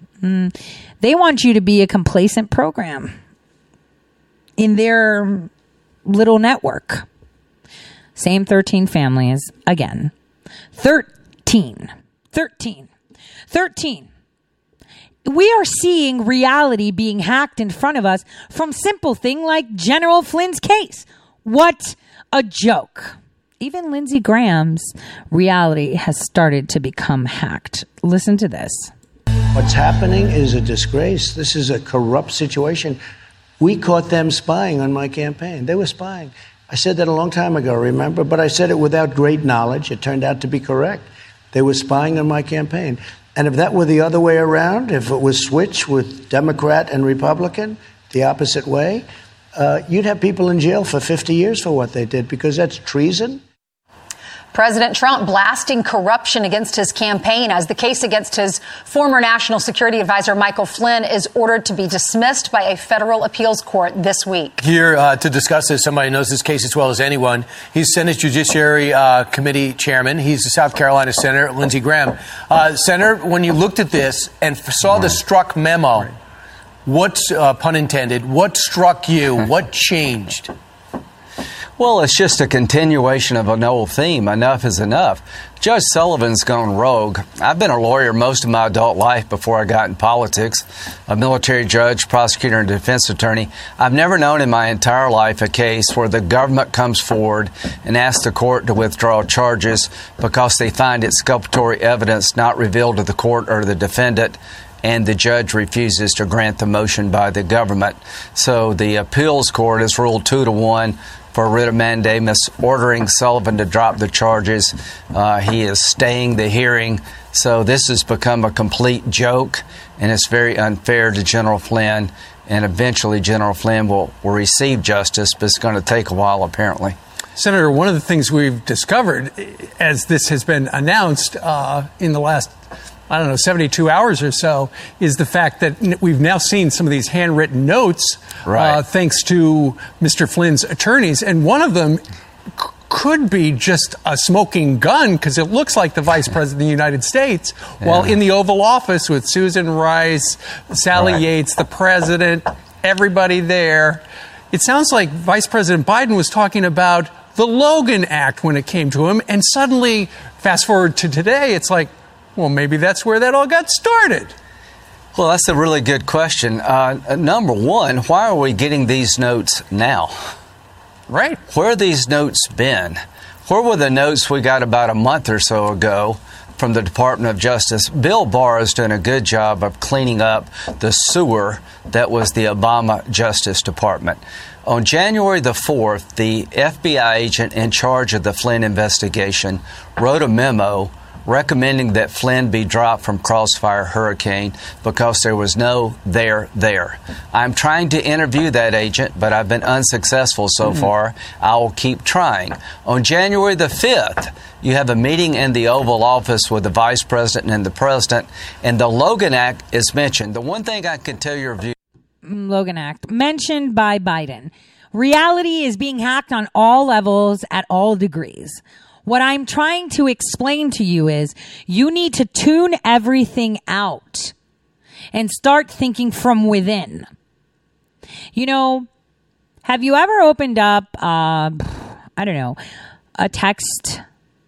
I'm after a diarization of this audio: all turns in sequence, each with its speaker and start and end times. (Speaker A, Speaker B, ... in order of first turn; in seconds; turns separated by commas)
Speaker A: 0.2-3.1, Speaker A: 4.6-5.5, Speaker A: 6.0-7.0, Speaker A: 8.2-10.1, Speaker A: 10.7-12.9, Speaker A: 13.5-14.1, Speaker A: 15.2-28.9, Speaker B: 29.5-33.0, Speaker B: 33.6-53.4, Speaker C: 54.5-64.6, Speaker D: 64.6-76.2, Speaker D: 76.8-80.5, Speaker E: 81.8-127.0, Speaker F: 127.3-132.6, Speaker F: 133.1-142.0, Speaker E: 138.5-138.8, Speaker F: 142.6-164.3, Speaker E: 165.1-170.1, Speaker E: 171.5-211.7, Speaker A: 212.2-224.3, Speaker A: 225.1-227.1, Speaker A: 228.3-228.9, Speaker A: 229.6-232.6, Speaker A: 233.2-234.0